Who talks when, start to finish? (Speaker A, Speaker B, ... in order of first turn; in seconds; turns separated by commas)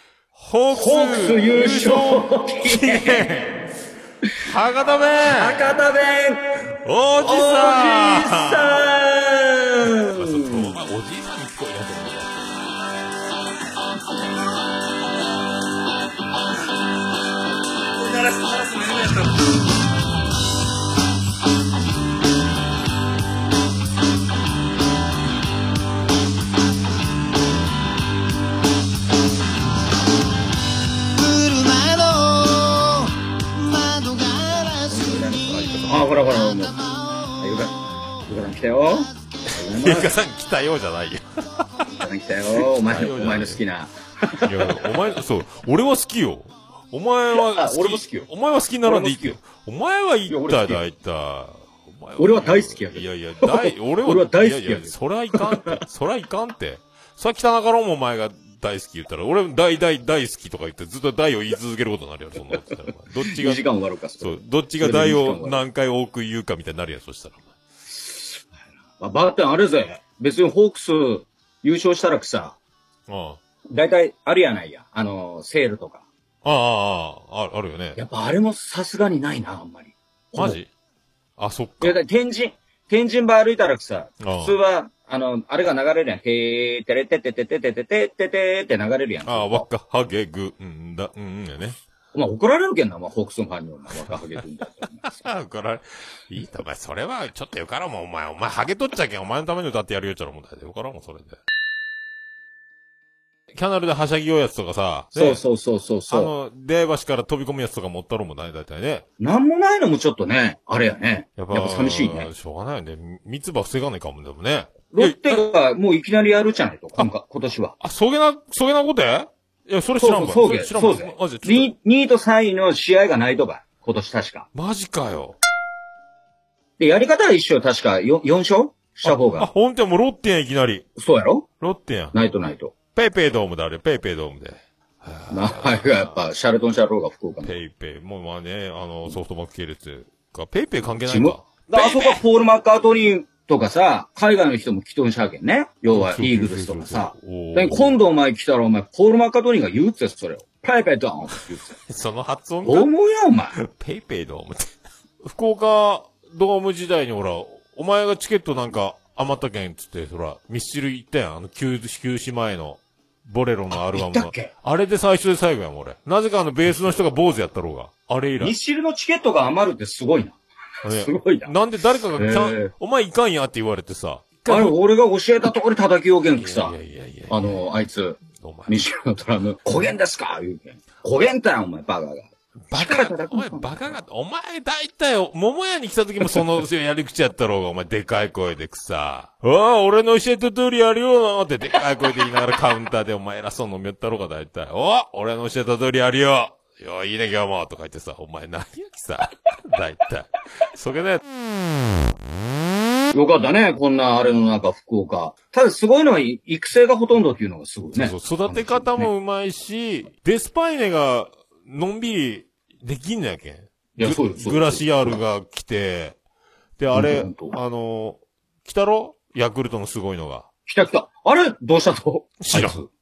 Speaker A: 0.3-3.6, Speaker B: 0.7-3.3, Speaker A: 4.4-5.7, Speaker B: 5.2-6.6, Speaker A: 6.8-8.9, Speaker B: 7.2-10.7, Speaker A: 9.8-12.7, Speaker B: 18.1-19.1, Speaker C: 31.1-37.6, Speaker B: 34.9-36.9, Speaker A: 35.3-36.3, Speaker B: 37.4-37.7, Speaker B: 38.3-40.1, Speaker A: 39.6-41.6, Speaker B: 42.0-44.8, Speaker A: 42.5-43.6, Speaker A: 44.4-63.6, Speaker B: 47.3-48.3, Speaker B: 48.8-49.4, Speaker B: 50.3-50.8, Speaker B: 52.2-55.8, Speaker B: 63.2-65.6, Speaker A: 64.2-67.5, Speaker B: 68.0-68.4, Speaker B: 69.0-72.6, Speaker A: 73.1-73.4, Speaker B: 73.7-76.0, Speaker A: 76.4-78.0, Speaker B: 78.0-80.6, Speaker A: 80.4-80.7, Speaker A: 81.4-82.0, Speaker B: 81.8-89.7, Speaker A: 84.2-84.6, Speaker A: 89.2-91.8, Speaker B: 92.1-95.3, Speaker A: 94.8-101.4, Speaker A: 103.5-105.4, Speaker B: 105.1-106.3, Speaker A: 106.1-109.0, Speaker B: 109.2-112.3, Speaker A: 111.4-115.4, Speaker B: 114.9-117.7, Speaker A: 117.8-121.7, Speaker B: 120.0-124.5, Speaker A: 124.5-125.4, Speaker B: 126.8-129.5, Speaker A: 129.0-130.8, Speaker B: 130.9-131.5, Speaker A: 131.6-132.2, Speaker B: 132.1-132.7, Speaker A: 132.9-136.2, Speaker B: 135.3-137.5, Speaker A: 137.4-142.2, Speaker B: 141.1-151.8, Speaker A: 145.9-148.0, Speaker A: 151.4-152.9, Speaker B: 152.6-153.5, Speaker A: 153.5-168.5, Speaker B: 163.7-164.5, Speaker B: 168.4-171.5, Speaker A: 170.8-174.8, Speaker B: 172.2-172.7, Speaker B: 174.5-176.8, Speaker A: 176.3-177.6, Speaker B: 177.3-183.9, Speaker A: 178.3-178.8, Speaker A: 182.7-202.0, Speaker B: 203.1-209.1, Speaker A: 207.9-216.2, Speaker B: 214.0-215.2, Speaker A: 216.8-220.5, Speaker B: 216.9-217.5, Speaker B: 220.7-222.8, Speaker A: 222.4-222.8